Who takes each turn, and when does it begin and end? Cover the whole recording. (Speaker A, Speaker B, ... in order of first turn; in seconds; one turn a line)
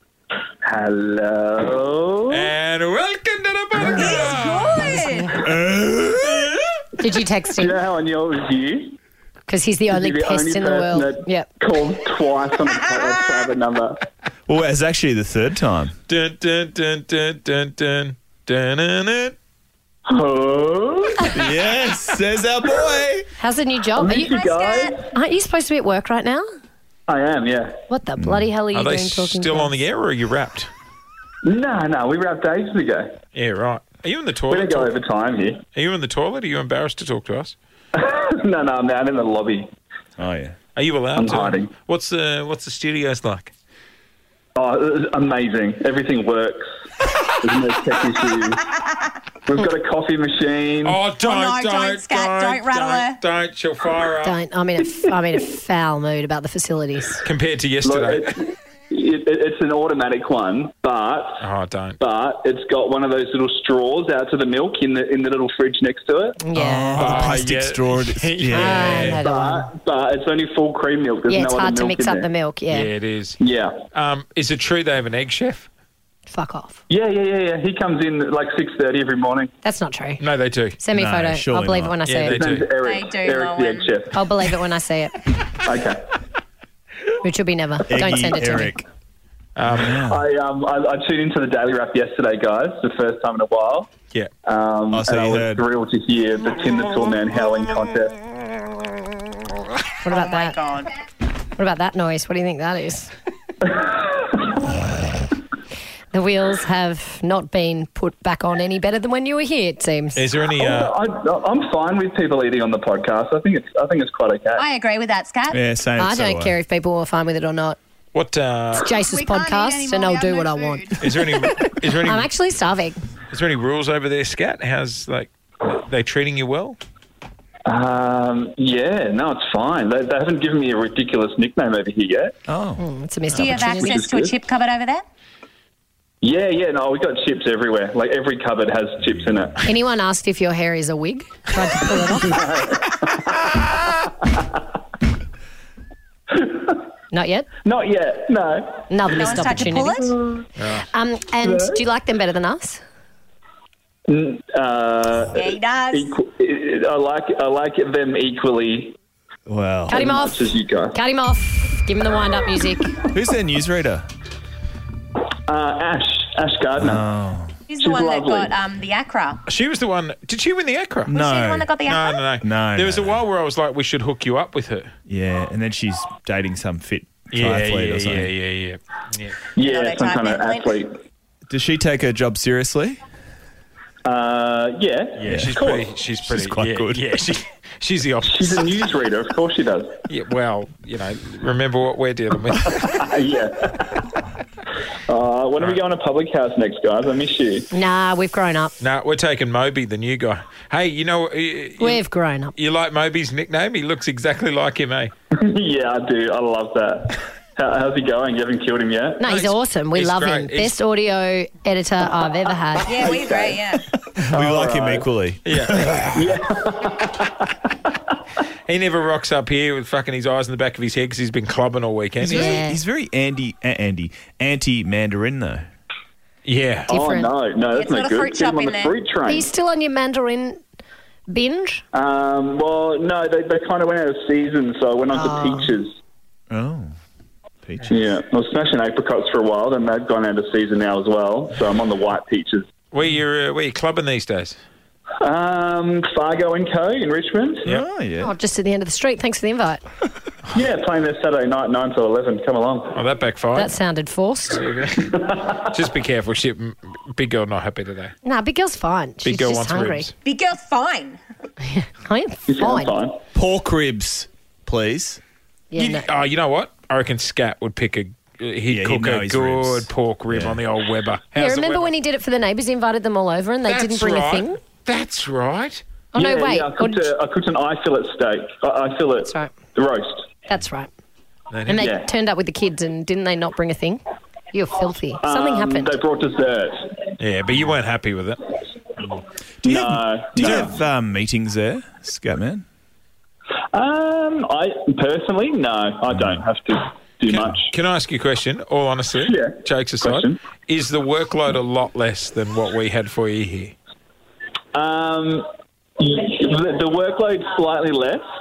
Speaker A: 0.6-2.5
Speaker B: 2.3-5.0
Speaker C: 3.9-5.4
Speaker D: 4.9-5.3
Speaker E: 5.4-6.6
Speaker D: 7.0-7.8
Speaker A: 7.6-9.0
Speaker D: 9.5-11.5
Speaker A: 9.9-14.0
Speaker E: 14.5-16.0
Speaker B: 16.1-19.4
Speaker A: 20.1-21.3
Speaker E: 21.3-23.3
Speaker D: 23.4-24.5
Speaker A: 24.0-25.1
Speaker C: 24.3-25.0
Speaker D: 25.1-26.5
Speaker A: 27.1-27.8
Speaker D: 27.9-29.8
Speaker E: 28.2-28.5
Speaker B: 28.7-30.7
Speaker A: 31.4-33.1
Speaker B: 33.3-34.9
Speaker A: 34.5-35.6
Speaker B: 35.7-37.6
Speaker A: 38.0-39.7
Speaker E: 40.2-40.6
Speaker B: 40.8-43.5
Speaker A: 41.2-41.7
Speaker A: 44.6-48.8
Speaker A: 49.5-51.0
Speaker B: 50.9-54.4
Speaker C: 51.1-53.2
Speaker D: 54.2-57.2
Speaker B: 57.2-58.3
Speaker A: 57.8-61.5
Speaker B: 61.4-62.0
Speaker A: 62.0-66.4
Speaker D: 66.4-67.3
Speaker E: 66.5-69.2
Speaker B: 67.0-69.2
Speaker D: 68.5-69.7
Speaker A: 69.1-72.3
Speaker D: 71.3-72.9
Speaker B: 72.7-73.4
Speaker A: 73.4-73.8
Speaker B: 73.9-75.7
Speaker D: 76.3-76.8
Speaker A: 76.9-79.5
Speaker D: 79.6-80.2
Speaker B: 80.2-80.8
Speaker D: 80.8-82.4
Speaker E: 80.9-82.0
Speaker B: 82.1-82.7
Speaker A: 82.3-84.2
Speaker C: 82.8-84.0
Speaker D: 84.1-85.2
Speaker A: 85.6-86.0
Speaker D: 87.2-88.8
Speaker E: 87.9-88.9
Speaker B: 89.6-90.0
Speaker E: 89.7-90.2
Speaker A: 89.8-93.9
Speaker A: 94.5-98.2
Speaker E: 94.9-95.6
Speaker D: 100.0-100.6
Speaker C: 100.1-100.9
Speaker D: 101.6-103.1
Speaker A: 103.8-104.3
Speaker D: 106.1-110.3
Speaker B: 110.2-110.9
Speaker A: 110.6-114.7
Speaker C: 114.5-115.6
Speaker E: 115.5-116.6
Speaker D: 116.0-117.8
Speaker B: 118.1-118.9
Speaker D: 118.7-123.0
Speaker C: 119.0-121.0
Speaker B: 121.0-122.3
Speaker B: 123.3-126.8
Speaker A: 127.7-132.4
Speaker E: 132.5-132.8
Speaker D: 132.8-134.1
Speaker C: 133.3-135.1
Speaker A: 133.4-134.4
Speaker A: 136.2-139.7
Speaker D: 139.6-142.5
Speaker A: 142.2-144.4
Speaker A: 146.3-146.8
Speaker D: 147.1-147.5
Speaker A: 147.7-150.4
Speaker D: 148.9-150.1
Speaker C: 149.1-150.1
Speaker B: 150.6-150.9
Speaker D: 150.9-152.8
Speaker A: 151.4-151.8
Speaker A: 154.1-159.0
Speaker C: 155.3-156.1
Speaker E: 159.5-160.0
Speaker D: 159.9-162.9
Speaker A: 159.9-161.0
Speaker E: 163.1-164.1
Speaker A: 165.5-167.0
Speaker E: 166.8-167.6
Speaker C: 167.7-169.4
Speaker A: 167.8-168.6
Speaker B: 169.5-171.1
Speaker E: 171.1-171.7
Speaker C: 171.1-172.2
Speaker B: 171.9-174.9
Speaker E: 172.4-173.2
Speaker E: 175.1-178.3
Speaker B: 177.3-179.5
Speaker A: 179.6-180.9
Speaker C: 179.6-180.8
Speaker E: 181.5-183.0
Speaker A: 184.0-185.9
Speaker B: 185.2-188.9
Speaker E: 185.3-185.6
Speaker E: 186.2-187.0
Speaker A: 188.2-190.0
Speaker B: 190.1-193.1
Speaker A: 192.9-194.1
Speaker A: 195.1-197.7
Speaker D: 197.7-198.8
Speaker B: 198.8-205.1
Speaker D: 201.8-202.5
Speaker A: 205.3-209.2
Speaker D: 209.2-213.2
Speaker B: 209.3-210.8
Speaker A: 212.9-215.1
Speaker C: 212.9-213.9
Speaker E: 214.2-216.2
Speaker B: 215.4-216.2
Speaker A: 216.1-217.7
Speaker B: 218.7-222.6
Speaker E: 222.2-225.7
Speaker D: 222.3-222.8
Speaker B: 226.4-226.9
Speaker D: 226.9-227.3
Speaker A: 226.9-229.5
Speaker C: 227.7-229.0
Speaker D: 229.3-230.6
Speaker D: 231.3-231.8
Speaker A: 231.9-235.9
Speaker D: 235.1-235.8
Speaker E: 236.5-237.0
Speaker E: 237.7-238.1
Speaker A: 237.9-242.7
Speaker B: 242.9-244.6
Speaker A: 245.2-247.7
Speaker E: 247.7-248.3
Speaker D: 248.2-249.8
Speaker A: 250.5-253.0
Speaker B: 252.9-253.7
Speaker D: 253.6-254.7
Speaker B: 254.5-258.1
Speaker D: 258.2-260.1
Speaker B: 259.2-260.1
Speaker C: 260.2-261.2
Speaker D: 261.6-262.9
Speaker A: 262.5-263.2
Speaker E: 263.3-265.2
Speaker D: 265.7-266.1
Speaker B: 265.8-271.9
Speaker E: 268.7-270.6
Speaker D: 271.4-274.6
Speaker B: 273.7-275.8
Speaker D: 276.1-277.1
Speaker A: 276.2-280.3
Speaker D: 279.2-279.5
Speaker D: 280.5-280.9
Speaker B: 281.5-281.9
Speaker D: 281.7-286.0
Speaker A: 281.8-282.1
Speaker A: 285.2-287.1
Speaker B: 287.2-289.2
Speaker E: 289.6-292.6
Speaker A: 289.6-290.8
Speaker A: 293.7-297.7
Speaker E: 296.1-296.4
Speaker B: 297.3-303.8
Speaker A: 299.2-300.4
Speaker A: 304.7-305.5
Speaker A: 306.0-308.2